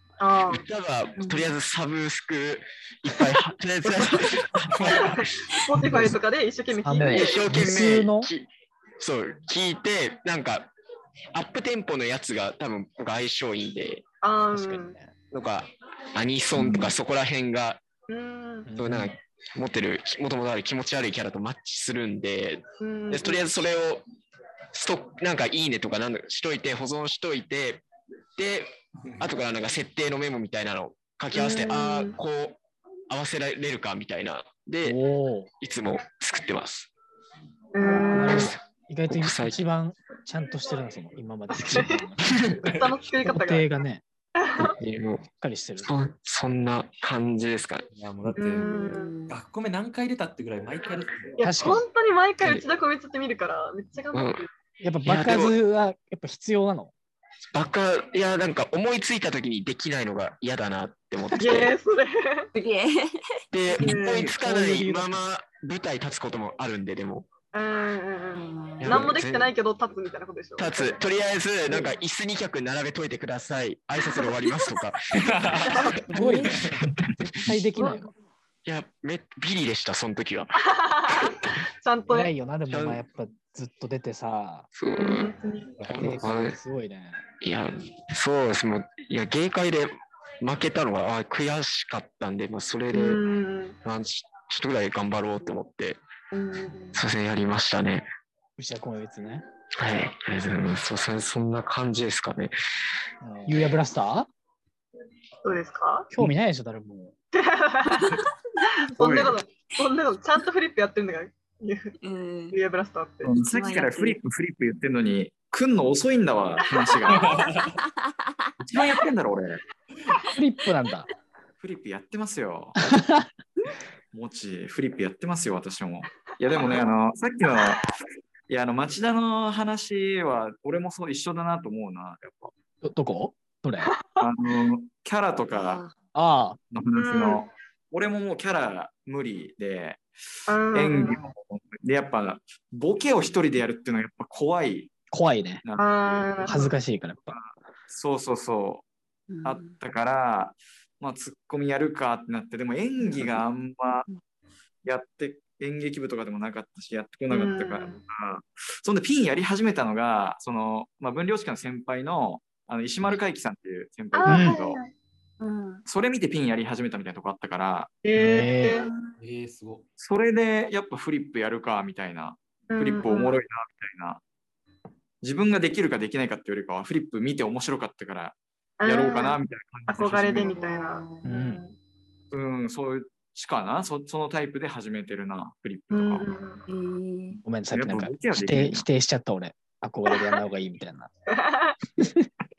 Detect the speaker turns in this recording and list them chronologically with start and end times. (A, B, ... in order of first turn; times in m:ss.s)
0:00.2-0:00.6 A
0:00.5-0:06.1 B
0:01.2-0:01.5 C
0:03.8-0:04.3 A
0:04.7-0:05.1 D
0:04.9-0:07.4 A
0:06.9-0:08.3 E
0:07.0-0:08.5 B
0:09.0-0:10.7 B
0:11.3-0:14.0 B
0:14.2-0:15.0 A
0:14.5-0:15.1 E
0:15.3-0:17.8 B
0:16.6-0:16.9 C
0:18.1-0:18.7 A
0:18.6-0:19.1 E
0:18.8-0:24.0 B
0:22.8-0:23.5 A
0:24.7-0:27.8 B
0:28.4-0:32.6 B
0:31.3-0:32.2 A
0:33.1-0:35.0 B
0:34.8-0:35.5 E
0:35.6-0:36.9 B
0:37.7-0:38.6 A
0:38.1-0:42.7 E
0:38.2-0:39.6 B
0:41.5-0:42.0 A
0:42.6-0:43.7 A
0:43.2-0:44.0 E
0:44.4-0:44.7 A
0:44.6-0:45.3 B
0:45.3-0:45.9 E
0:45.8-0:47.9 B
0:48.0-0:48.7 D
0:48.4-0:49.1 A
0:48.5-0:49.4 C
0:49.3-0:51.4 D
0:51.4-0:54.5 A
0:51.4-0:51.8 E
0:54.1-0:54.4 B
0:54.8-0:56.9 E
0:55.0-0:55.6 B
0:57.5-1:01.8 B
1:01.4-1:02.5 A
1:02.5-1:03.4 C
1:03.5-1:07.3 B
1:03.8-1:04.3 A
1:04.2-1:05.2 E
1:07.5-1:11.0 A
1:08.3-1:09.1 C
1:08.8-1:09.5 B
1:10.6-1:16.0 B
1:15.2-1:15.7 D
1:15.7-1:16.1 A
1:16.1-1:18.1 E
1:16.8-1:17.1 B
1:17.8-1:18.1 C
1:18.6-1:21.4 B
1:20.7-1:22.3 A
1:22.1-1:24.7 E
1:22.7-1:23.0 B
1:24.7-1:26.6 B
1:25.0-1:25.7 A
1:25.8-1:27.2 E
1:27.4-1:33.2 B
1:32.9-1:33.8 A
1:33.8-1:36.0 B
1:36.3-1:37.0 A
1:36.9-1:38.1 B
1:38.6-1:39.4 E
1:39.8-1:42.5 B
1:43.2-1:44.3 E
1:45.4-1:46.1 A
1:46.1-1:47.1 E
1:47.3-1:48.2 A
1:49.0-1:52.0 A
1:49.0-1:49.4 F
1:52.0-1:52.6 C
1:52.5-1:53.3 A
1:53.2-1:57.4 F
1:53.4-1:54.2 C
1:56.8-1:57.3 A
1:57.1-1:57.7 D
1:58.6-1:59.6 F
2:00.3-2:01.1 E
2:01.6-2:02.8 F
2:02.9-2:03.3 E
2:04.1-2:07.8 F
2:08.5-2:12.5 F
2:12.8-2:13.9 E
2:14.2-2:15.8 F
2:15.5-2:15.9 C
2:16.1-2:16.6 E
2:16.7-2:20.0 F
2:17.0-2:17.4 A
2:20.5-2:21.2 A
2:20.7-2:24.9 F
2:25.1-2:25.6 E
2:25.6-2:26.6 F
2:25.8-2:26.7 A
2:26.5-2:27.4 E
2:27.3-2:28.8 F
2:29.3-2:29.8 C
2:29.4-2:34.0 F
2:34.8-2:44.8 F
2:37.3-2:38.0 A
2:44.1-2:44.7 A
2:44.3-2:44.6 E
2:44.3-2:44.8 C
2:45.4-2:45.8 C
2:45.9-2:47.9 F
2:48.0-2:48.9 A
2:48.1-2:48.8 E
2:48.8-2:49.1 C
2:49.2-2:49.9 D
2:50.0-2:54.2 F
2:52.7-2:53.4 A
2:55.2-3:00.7 F
2:58.8-3:01.8 A
3:00.4-3:01.2 C
3:01.2-3:01.6 E
3:02.3-3:06.4 F
3:05.9-3:06.6 A
3:06.7-3:07.4 C
3:07.4-3:11.1 E
3:07.7-3:08.9 F
3:11.3-3:11.8 A
3:12.0-3:12.3 E